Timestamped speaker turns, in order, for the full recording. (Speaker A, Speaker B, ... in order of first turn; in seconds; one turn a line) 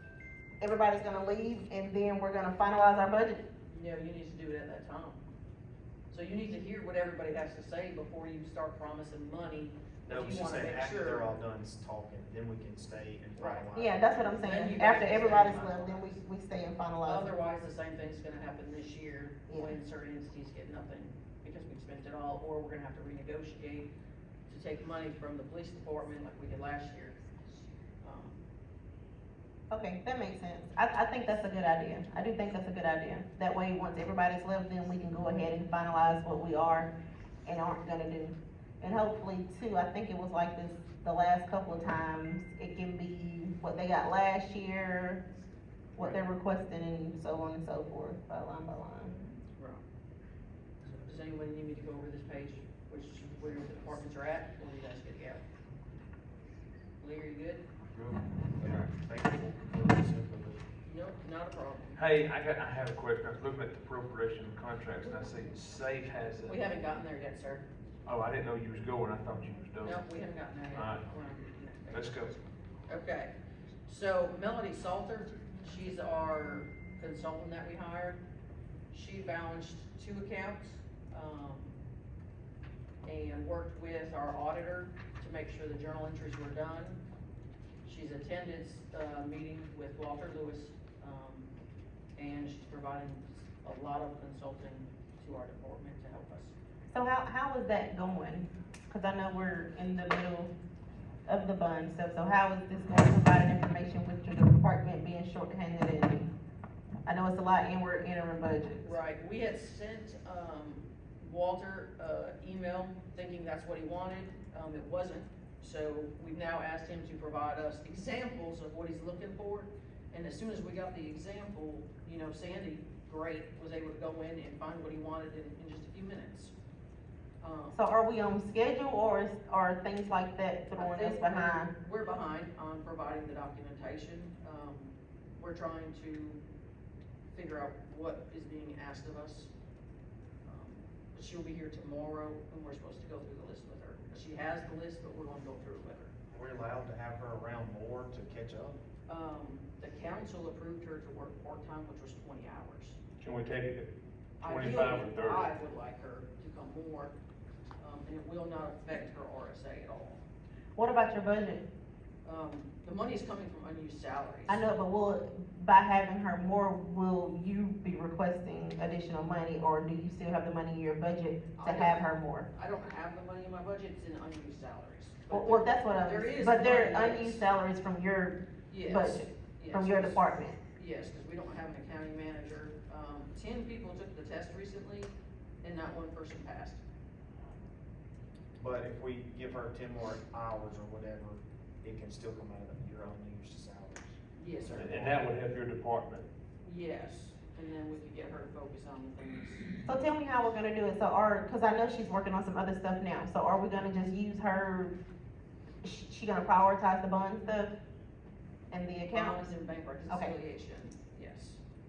Speaker A: 0.6-3.4
Speaker B: 3.7-5.2
Speaker B: 6.1-11.4
Speaker C: 10.0-14.0
Speaker B: 13.3-13.7
Speaker A: 13.7-17.3
Speaker B: 14.2-16.2
Speaker B: 17.0-23.9
Speaker B: 24.5-27.2
Speaker B: 28.0-28.4
Speaker A: 29.7-36.9
Speaker A: 37.4-45.2
Speaker A: 46.0-49.1
Speaker B: 49.2-49.8
Speaker B: 50.8-55.4
Speaker B: 57.0-57.6
Speaker C: 58.6-60.6
Speaker B: 60.8-62.0
Speaker D: 62.0-66.6
Speaker B: 66.5-67.6
Speaker D: 68.0-70.0
Speaker B: 69.8-73.3
Speaker D: 70.7-71.2
Speaker D: 71.9-72.3
Speaker B: 73.8-78.2
Speaker B: 78.9-81.8
Speaker B: 83.0-87.0
Speaker B: 87.8-91.5
Speaker B: 92.2-96.5
Speaker A: 96.9-100.5
Speaker A: 101.2-106.3
Speaker A: 107.0-108.9
Speaker B: 108.8-126.5
Speaker B: 127.4-127.8
Speaker A: 127.7-131.7
Speaker B: 130.8-136.4
Speaker B: 137.3-139.5
Speaker B: 140.4-146.1
Speaker C: 146.3-148.8
Speaker B: 149.1-153.0
Speaker D: 153.2-155.5
Speaker B: 154.4-157.1
Speaker B: 157.8-160.2
Speaker A: 160.7-161.6
Speaker B: 162.2-164.7
Speaker A: 164.5-172.5
Speaker B: 171.6-177.5
Speaker A: 175.3-180.6
Speaker B: 178.7-186.8
Speaker C: 188.6-194.2
Speaker B: 194.3-195.0
Speaker C: 194.7-195.2
Speaker D: 194.7-196.3
Speaker B: 196.6-199.7
Speaker A: 199.8-204.9
Speaker A: 205.8-207.7
Speaker A: 208.7-209.5
Speaker B: 209.1-211.6
Speaker A: 210.1-210.3